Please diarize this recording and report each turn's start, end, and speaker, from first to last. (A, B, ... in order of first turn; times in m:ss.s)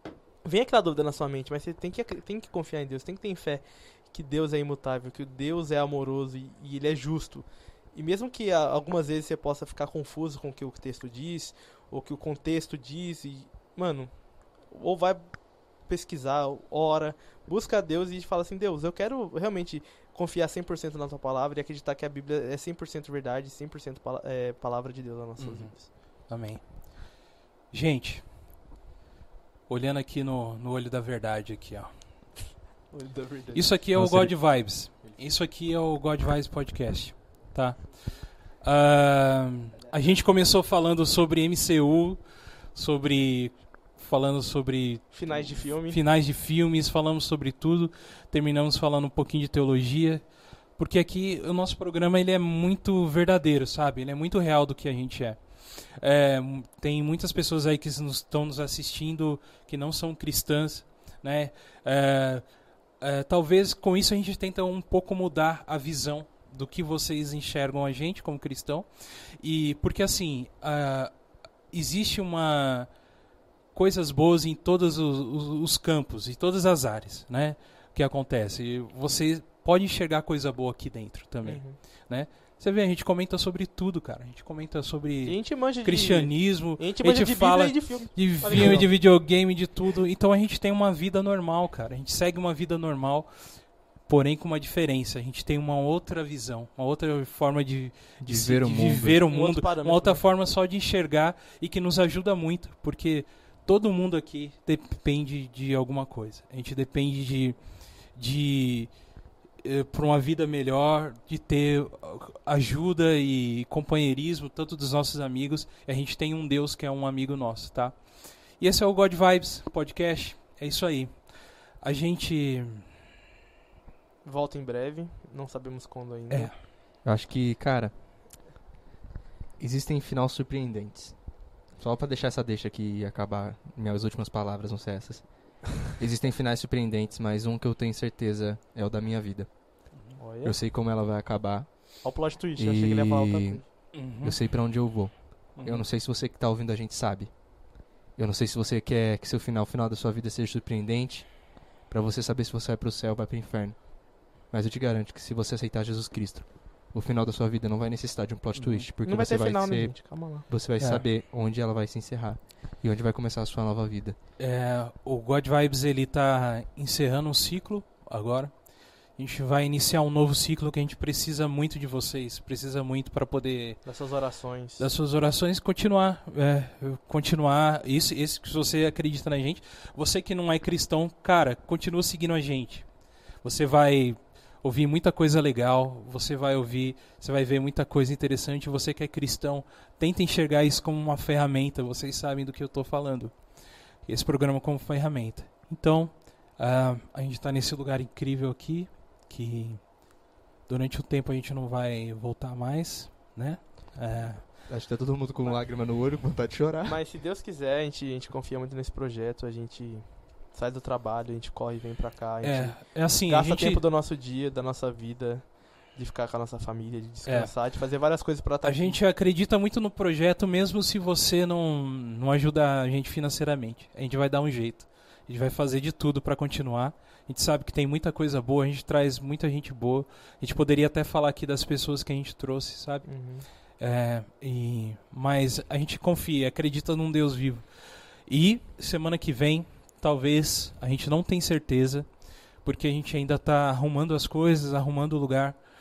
0:00.4-0:14.1 A
0:14.7-0:15.2 A
0:15.8-0:25.9 A
0:25.4-0:27.2 B
0:27.7-0:28.2 B
0:29.7-0:31.9 B
0:32.9-0:33.7 A
0:33.5-0:42.2 B
0:34.0-0:34.5 C
0:42.7-0:50.2 B
0:45.1-0:46.0 A
0:50.7-1:02.5 B
1:03.0-1:08.9 B
1:09.4-1:12.9 B
1:13.7-1:33.3 B
1:21.4-1:21.8 A
1:25.2-1:28.9 A
1:28.5-1:28.8 C
1:34.0-1:47.6 B
1:38.2-1:39.2 C
1:39.3-1:40.2 A
1:48.1-1:48.9 B
1:49.6-1:58.0 B
1:58.6-2:01.3 B
2:01.8-2:02.9 B
2:04.2-2:06.5 A
2:07.0-2:07.9 C
2:09.6-2:11.2 C
2:11.8-2:19.5 C
2:20.2-2:20.6 A
2:20.4-2:22.0 C
2:22.0-2:23.7 A
2:22.6-2:27.5 C
2:23.9-2:24.4 B
2:25.5-2:25.8 B
2:28.1-2:40.0 C
2:38.5-2:38.8 B
2:39.0-2:40.5 A
2:40.5-2:44.2 C
2:44.4-2:48.6 B
2:49.1-2:53.8 B
2:53.8-2:54.8 A
2:54.8-3:02.9 B
3:03.4-3:13.4 B
3:14.0-3:20.0 B
3:20.6-3:24.5 B
3:24.7-3:27.0 C
3:26.8-3:39.0 A
3:32.4-3:33.8 B
3:37.2-3:37.5 B
3:38.6-3:53.1 B
3:53.1-3:53.4 A
3:53.8-3:57.6 B
3:58.2-4:02.1 B
4:02.6-4:05.6 B